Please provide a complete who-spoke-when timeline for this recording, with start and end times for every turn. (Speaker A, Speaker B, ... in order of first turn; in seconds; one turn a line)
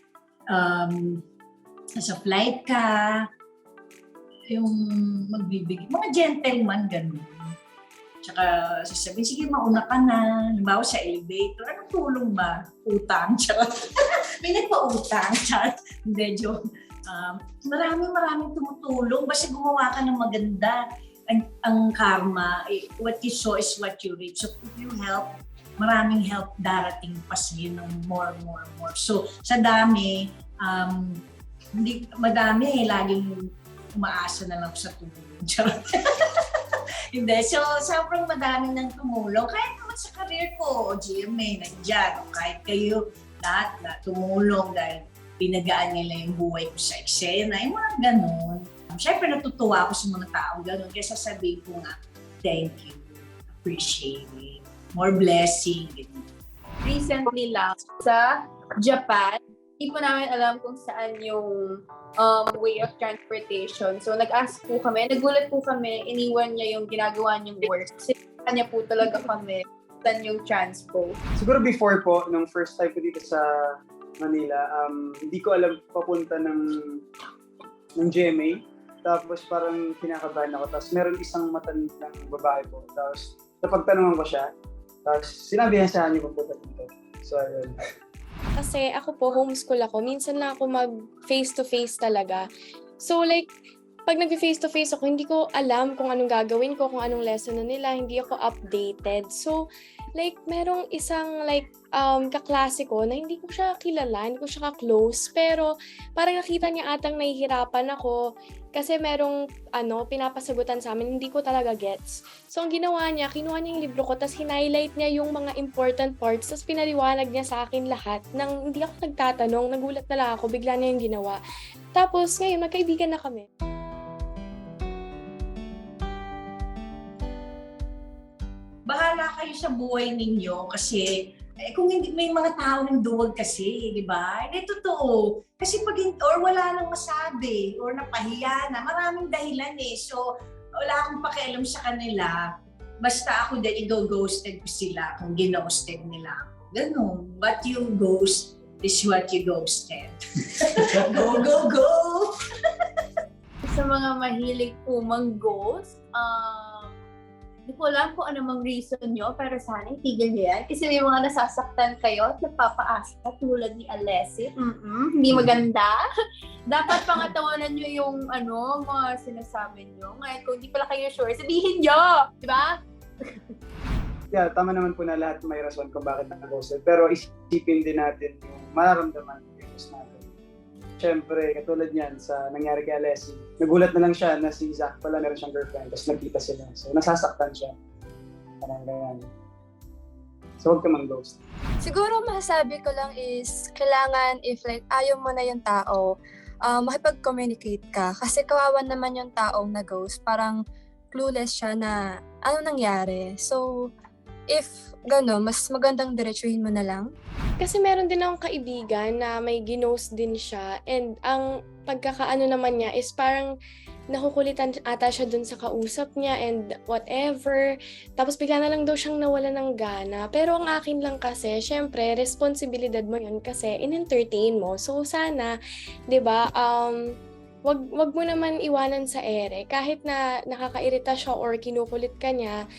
Speaker A: 0.5-1.2
Speaker A: 1.9-3.2
Speaker A: 4.5-7.5
Speaker A: 8.2-13.8
Speaker A: 14.4-31.2
Speaker A: 31.7-36.2
Speaker A: 37.1-56.2
Speaker B: 56.8-71.2
Speaker C: 71.3-77.0
Speaker C: 78.0-84.5
Speaker C: 85.0-87.7
Speaker D: 88.5-92.4
Speaker D: 93.0-93.5
Speaker D: 94.0-99.6
Speaker D: 100.2-108.2
Speaker D: 108.7-121.4
Speaker D: 121.9-123.5
Speaker A: 128.8-131.1
Speaker A: 131.6-140.2
Speaker A: 140.8-142.4
Speaker A: 143.0-150.2
Speaker A: 150.8-152.3
Speaker B: 153.6-156.9
Speaker B: 157.7-166.0
Speaker B: 166.7-172.8
Speaker C: 174.3-180.2
Speaker C: 181.0-187.7
Speaker C: 188.6-189.3
Speaker C: 190.6-191.4
Speaker E: 191.8-196.1
Speaker E: 196.7-200.6
Speaker E: 201.1-203.7
Speaker E: 204.5-207.1
Speaker D: 207.6-213.5
Speaker D: 214.1-217.6
Speaker D: 218.2-225.5
Speaker D: 226.1-227.0
Speaker D: 227.7-232.6